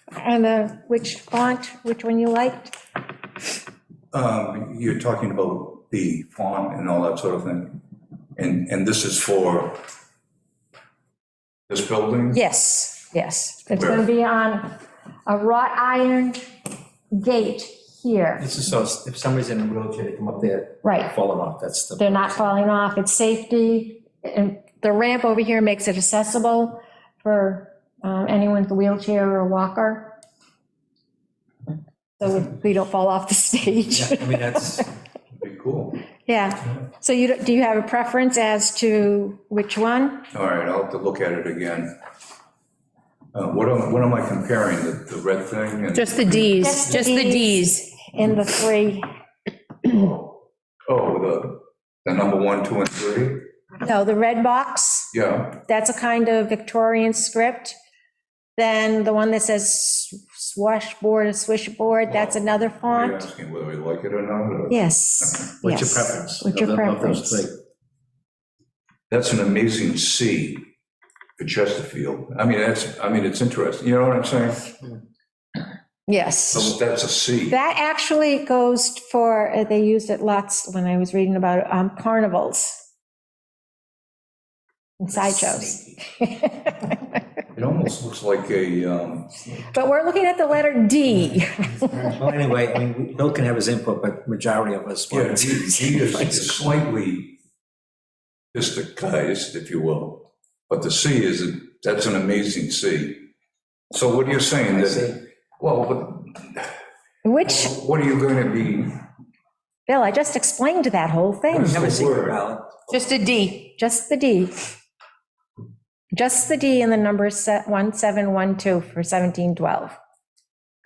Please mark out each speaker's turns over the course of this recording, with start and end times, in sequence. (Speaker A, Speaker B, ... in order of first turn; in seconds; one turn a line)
Speaker A: 0.2-2.8
Speaker B: 4.1-7.8
Speaker B: 8.4-9.8
Speaker B: 11.7-12.4
Speaker A: 12.3-16.4
Speaker B: 13.7-14.1
Speaker A: 17.1-18.5
Speaker C: 18.4-22.5
Speaker A: 20.8-21.1
Speaker A: 22.0-30.1
Speaker A: 32.2-34.9
Speaker C: 33.9-34.9
Speaker B: 35.4-36.0
Speaker A: 36.3-40.3
Speaker B: 40.3-41.9
Speaker B: 43.3-46.5
Speaker D: 45.9-47.8
Speaker A: 46.6-49.1
Speaker B: 49.9-50.3
Speaker B: 50.9-53.5
Speaker A: 53.8-57.8
Speaker B: 55.1-55.6
Speaker A: 58.6-63.3
Speaker B: 62.1-65.5
Speaker A: 64.7-67.5
Speaker C: 65.6-67.5
Speaker B: 69.1-70.7
Speaker B: 71.4-74.8
Speaker A: 76.1-76.7
Speaker B: 76.5-77.6
Speaker A: 77.5-82.8
Speaker A: 85.0-87.0
Speaker C: 85.2-85.8
Speaker B: 87.5-89.4
Speaker A: 89.6-92.2
Speaker C: 92.2-96.5
Speaker B: 95.1-97.4
Speaker B: 98.5-103.3
Speaker B: 103.9-106.7
Speaker C: 104.7-105.2
Speaker A: 107.2-107.7
Speaker B: 107.5-109.0
Speaker A: 109.9-111.9
Speaker B: 111.5-112.4
Speaker C: 111.5-112.7
Speaker D: 112.9-113.7
Speaker A: 113.8-114.6
Speaker A: 116.1-120.0